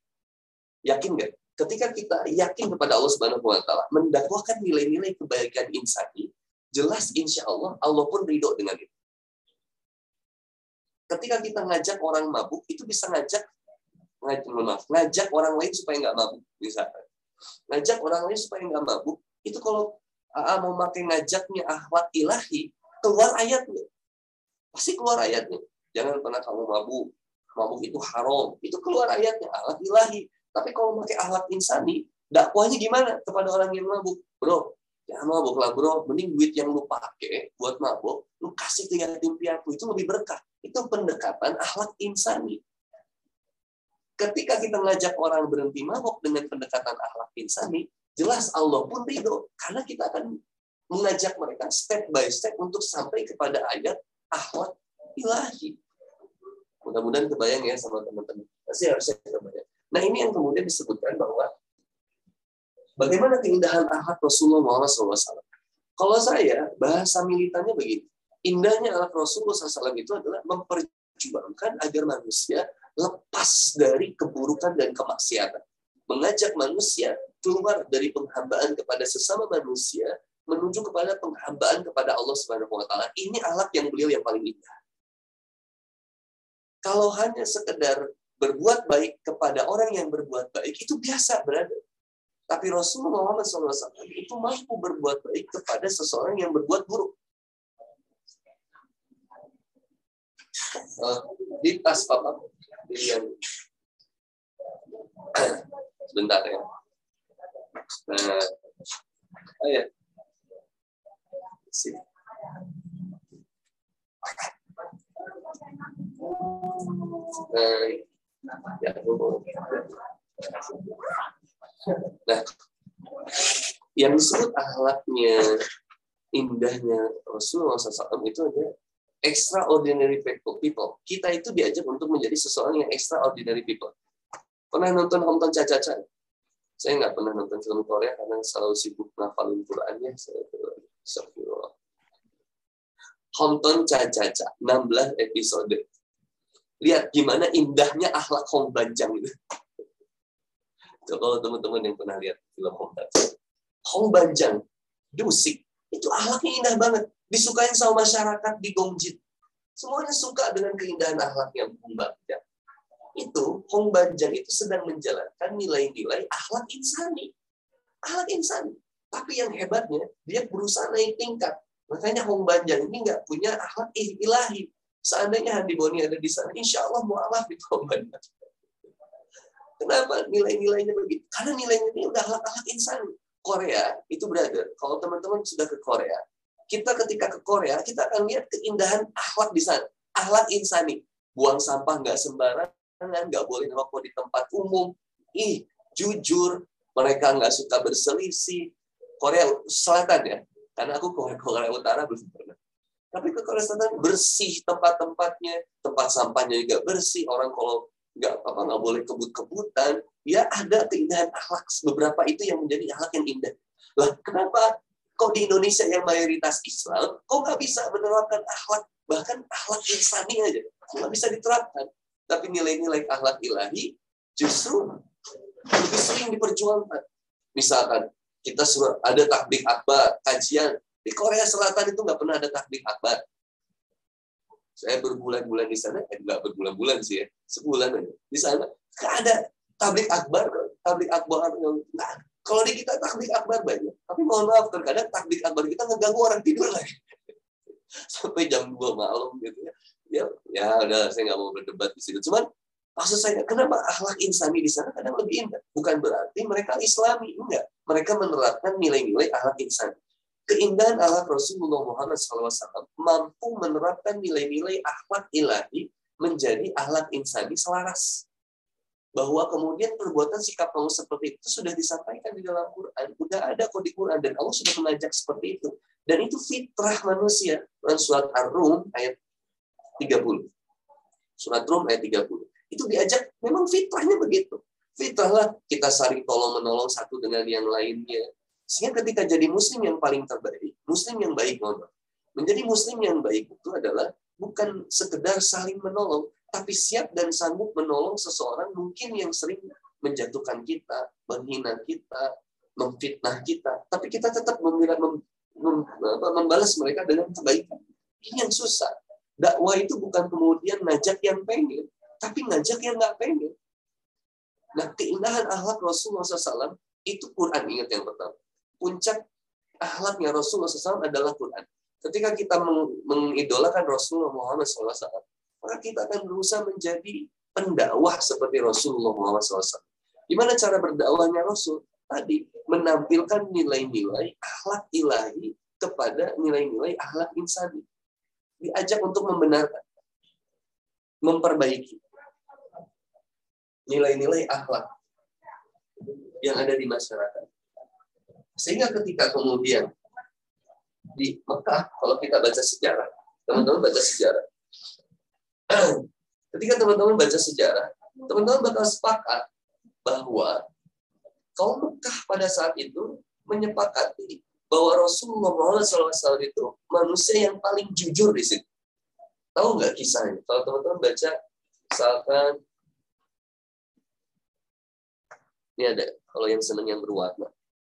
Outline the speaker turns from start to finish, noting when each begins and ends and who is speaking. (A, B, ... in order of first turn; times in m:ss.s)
0:00.9-0:08.9 A
0:11.1-0:13.4 A
0:14.2-0:17.0 A
0:17.7-0:23.9 A
0:24.7-0:42.6 A
0:44.2-0:50.3 A
0:50.9-0:55.8 A
0:56.8-1:01.5 A
1:03.0-1:05.4 A
1:06.0-1:24.8 A
1:26.8-1:31.8 A
1:32.5-1:37.1 A
1:40.6-1:43.3 A
1:45.2-1:46.7 A
1:48.0-1:48.5 A
1:49.6-1:49.9 A
1:51.7-1:52.0 A
1:55.5-1:58.0 A
1:58.6-2:01.3 A
2:01.8-2:02.4 A
2:03.1-2:05.6 A
2:06.3-2:08.7 A
2:09.2-2:13.9 A
2:14.7-2:16.0 A
2:16.8-2:21.7 A
2:23.4-2:25.8 A
2:26.8-2:29.3 A
2:31.0-2:33.3 A
2:33.8-2:34.6 A
2:35.2-2:39.2 A
2:39.8-2:42.4 A
2:43.2-2:47.3 A
2:48.1-2:58.5 A
2:59.8-3:18.7 A
3:19.2-3:22.6 A
3:23.1-3:45.0 A
3:45.6-3:47.0 A
3:47.6-3:53.2 A
3:54.8-4:07.2 A
4:07.9-4:20.0 A
4:20.5-4:28.2 A
4:29.2-4:39.2 A
4:40.0-4:40.5 A
4:41.4-5:13.5 A
5:14.8-5:19.2 A
5:19.8-5:37.8 A
5:38.6-5:39.8 A
5:41.2-5:42.0 A
5:43.9-5:44.9 A
5:46.3-5:47.5 A
5:48.6-5:49.9 A
5:51.1-5:54.4 A
5:55.7-5:59.4 A
6:00.0-6:00.6 A
6:01.6-6:08.6 A
6:09.6-6:11.3 A
6:11.9-6:12.6 A
6:15.8-6:17.5 A